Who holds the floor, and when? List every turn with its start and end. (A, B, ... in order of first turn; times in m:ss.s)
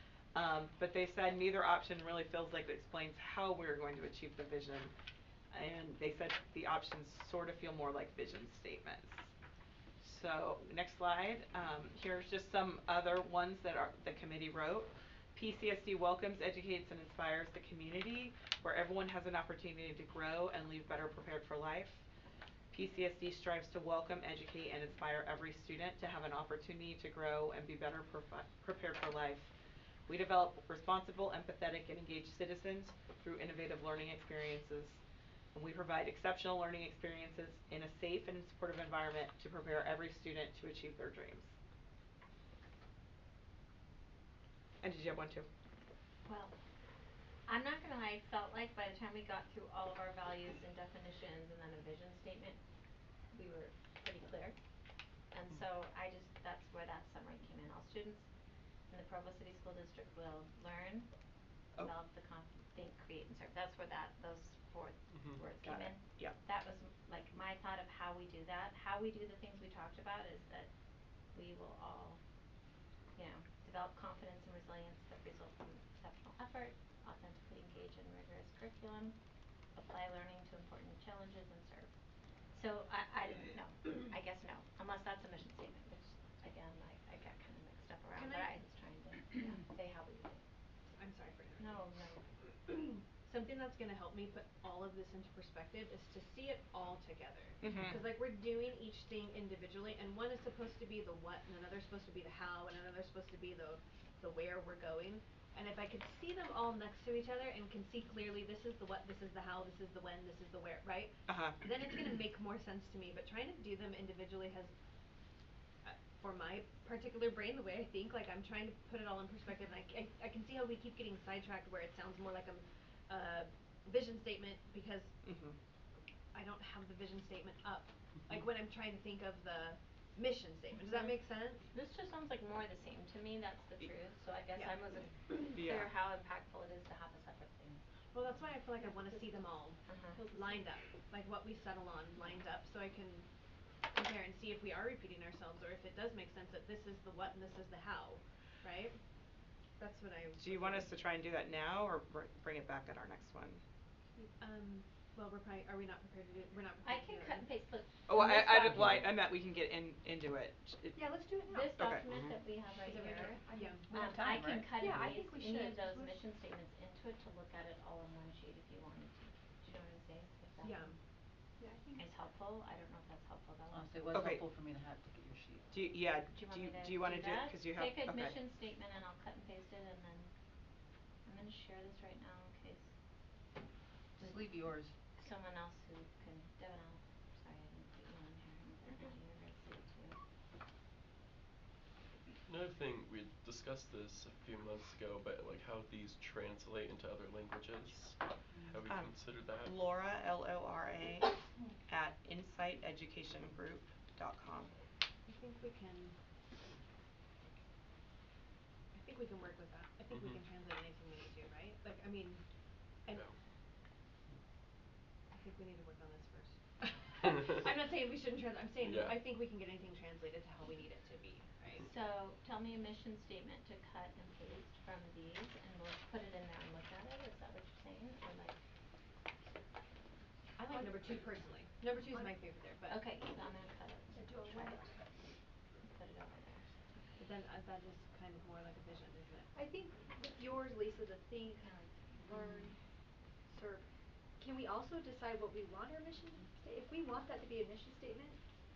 0:00.3-0:04.9 A
0:05.5-0:09.3 A
0:10.0-0:22.0 A
0:22.7-0:29.5 A
0:30.1-0:35.0 A
0:35.5-0:41.5 A
0:44.8-0:45.5 A
0:46.2-0:46.5 B
0:47.5-0:52.6 B
0:53.3-0:54.6 B
0:55.3-0:58.2 B
0:58.9-1:01.1 B
1:01.8-1:10.7 B
1:05.1-1:05.4 C
1:05.6-1:06.4 A
1:11.3-1:12.2 B
1:13.2-1:19.2 B
1:19.7-1:21.9 B
1:22.5-1:30.4 B
1:28.1-1:28.5 D
1:30.9-1:31.8 D
1:31.6-1:32.3 B
1:32.7-1:54.7 D
1:37.6-1:38.0 A
1:51.3-1:51.6 A
1:55.8-2:05.1 D
2:05.2-2:05.6 A
2:06.3-2:11.6 D
2:11.7-2:18.8 B
2:15.5-2:15.9 A
2:18.1-2:23.3 D
2:19.8-2:20.2 B
2:23.9-2:29.0 D
2:29.8-2:30.9 D
2:30.4-2:33.6 A
2:34.4-2:37.5 D
2:36.8-2:38.7 B
2:38.1-2:41.0 A
2:38.7-2:39.0 C
2:40.9-2:41.7 E
2:41.5-2:51.0 B
2:41.7-2:42.0 A
2:42.0-2:42.4 C
2:42.8-2:43.9 D
2:43.4-2:43.8 E
2:43.9-2:45.0 F
2:44.8-2:46.2 E
2:50.6-2:50.9 D
2:51.6-2:52.0 E
2:51.9-2:54.0 B
2:53.7-2:55.8 F
2:54.1-2:54.4 A
2:55.7-2:58.4 A
2:56.3-3:00.3 B
3:01.2-3:02.9 B
3:04.2-3:04.9 F
3:04.2-3:10.2 B
3:12.4-3:19.8 C
3:18.9-3:21.3 A
3:21.8-3:24.7 A
3:25.2-3:26.1 D
3:28.9-3:32.4 D
3:30.1-3:30.4 C
3:35.3-3:41.9 D
3:38.8-3:39.2 C
3:41.8-3:48.6 B
3:50.6-3:53.0 D
3:50.7-3:51.2 E
3:52.1-3:52.4 E
3:52.9-3:54.9 B
3:54.1-3:55.0 E
3:55.8-3:57.0 B
3:57.2-3:59.5 D
3:59.5-4:02.7 E
4:02.3-4:02.7 B
4:03.5-4:03.8 E
4:04.4-4:08.4 E